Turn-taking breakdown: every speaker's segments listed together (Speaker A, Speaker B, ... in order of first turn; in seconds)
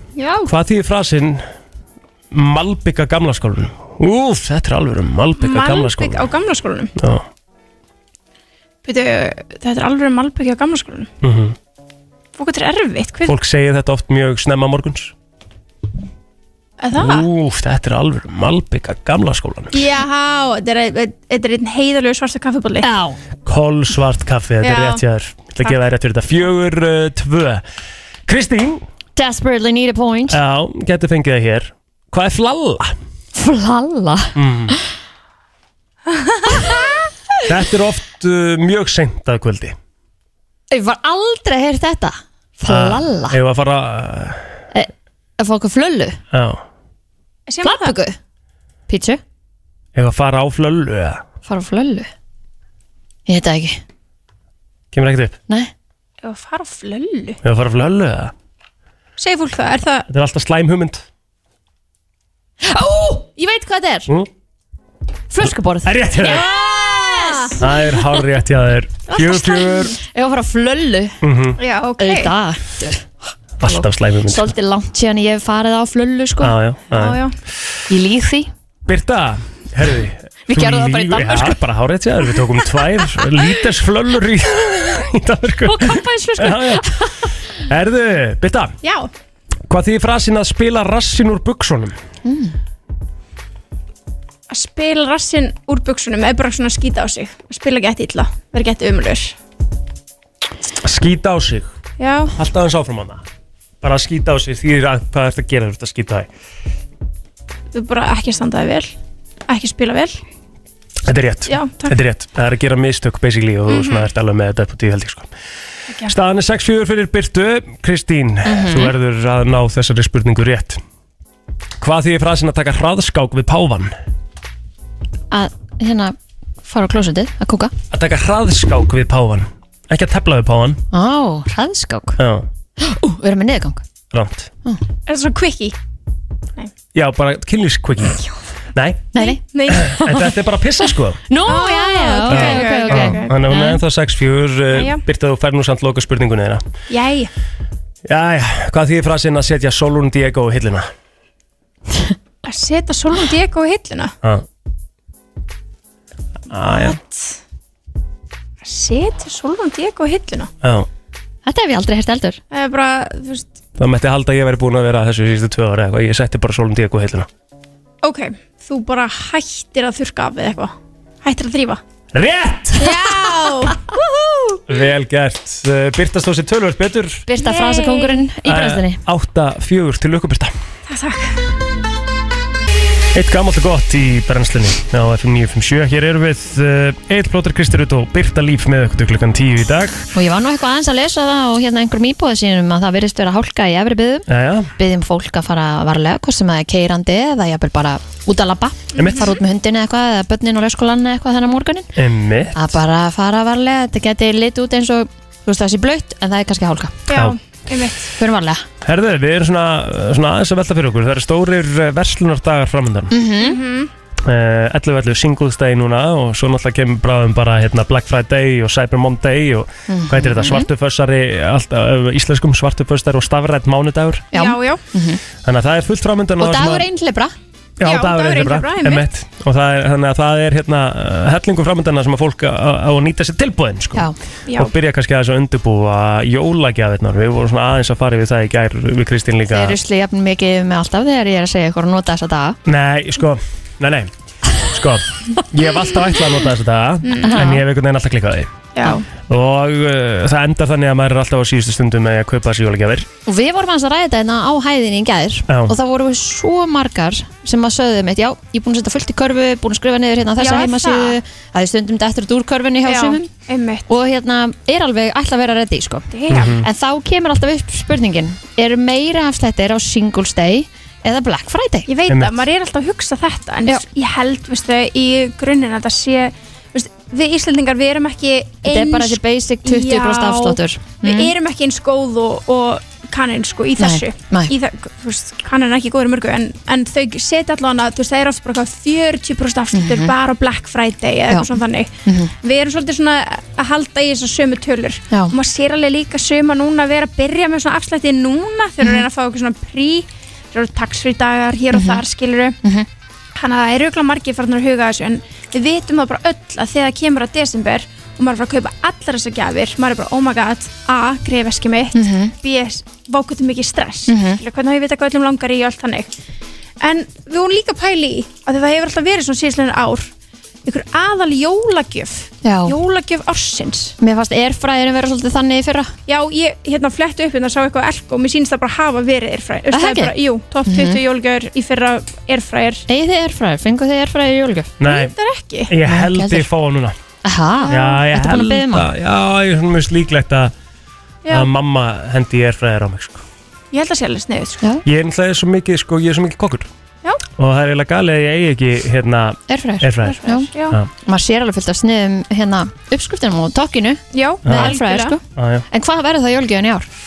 Speaker A: 0.2-0.5, 5.4-6.9, 8.8-11.1, 12.4-13.4, 16.8-17.3, 19.7-22.9, 24.6-25.0, 36.3-36.7, 47.5-48.0, 56.2-57.4, 59.2-60.1, 66.2-67.6, 69.1-69.9, 71.6-72.3, 76.9-77.3, 88.8-89.1, 94.5-99.3, 102.0-102.3, 107.7-108.9, 109.5-110.2, 111.5-112.0, 113.7-114.1, 135.1-135.8, 139.2-140.0, 141.4-143.4, 144.7-145.0, 146.9-147.3, 152.4-154.2, 156.7-157.4, 158.6-160.5, 162.5-163.6, 168.0-171.8, 172.8-174.6, 177.4-178.3, 180.9-181.4, 198.9-199.4, 207.1-208.1, 213.4-213.9, 224.3-224.8, 227.8-229.1, 234.5-234.7, 247.0-247.5, 248.8-249.1, 260.4-261.2, 262.8-263.9, 266.1-266.6, 271.9-302.6, 303.4-316.1, 316.8-320.1, 320.6-323.9, 326.1-332.8, 334.8-335.8, 337.6-338.0, 341.2-341.5, 343.7-344.6, 350.0-350.8, 354.1-355.2
Speaker B: 0.5-1.4, 2.3-6.3, 7.0-7.3, 11.2-11.6, 13.3-15.1, 17.0-19.8, 23.4-27.6, 28.3-28.8, 30.3-33.0, 34.4-34.8, 37.5-39.8, 42.7-44.5, 46.3-46.6, 50.0-51.2, 54.9-55.4, 57.4-58.3, 60.1-61.0, 65.8-66.5, 67.6-70.0, 71.2-71.6, 73.6-74.5, 76.4-77.2, 78.9-86.9, 87.6-88.8, 89.7-92.0, 100.8-101.7, 102.3-103.2, 103.8-106.3, 111.0-115.3, 116.1-120.8, 121.8-123.9, 127.9-130.8, 132.2-132.5, 134.1-134.5, 136.9-138.2, 138.7-141.2, 142.3-146.7, 148.1-150.9, 156.5-157.0, 160.6-160.9, 163.8-167.3, 172.1-173.1, 174.7-177.3, 178.4-180.5, 183.1-190.0, 194.3-194.7, 199.0-199.3, 202.0-202.6, 207.1-207.4, 208.8-213.1, 214.2-224.3, 225.4-226.9, 227.8-239.8, 242.7-248.6, 249.3-253.1, 255.5-255.8, 266.3-266.7, 272.1-272.4, 334.8-335.1, 335.7-337.0, 337.7-340.5, 341.3-343.2, 344.8-346.7, 347.4-350.9, 354.4-354.8, 355.4-355.6
Speaker C: 22.8-23.2, 29.2-30.4, 33.4-34.8, 36.5-36.9, 40.7-43.4, 44.7-46.2, 47.6-48.2, 48.9-49.2, 51.5-52.1, 53.3-53.8, 62.6-64.1, 65.3-68.2, 69.2-71.2, 72.0-73.1, 73.6-76.6, 77.9-78.5, 80.5-81.6, 85.6-87.3, 92.2-92.5, 118.5-118.9, 125.3-127.7, 130.9-132.2, 132.8-133.8, 139.1-140.3, 141.3-143.8, 161.5-162.4, 177.3-179.0, 190.1-201.9, 202.6-207.0, 208.2-208.7, 213.1-213.6, 219.9-220.7, 224.3-225.2, 226.4-227.3, 239.5-242.6, 247.2-247.6, 253.3-263.3, 263.9-271.9, 278.6-281.3, 283.8-284.5, 289.7-290.1, 291.3-292.3, 301.7-302.0, 311.9-312.3, 314.1-314.4, 322.4-322.8, 324.0-325.9, 329.7-331.0, 332.9-334.7, 335.9-336.5, 337.2-338.9, 349.5-356.9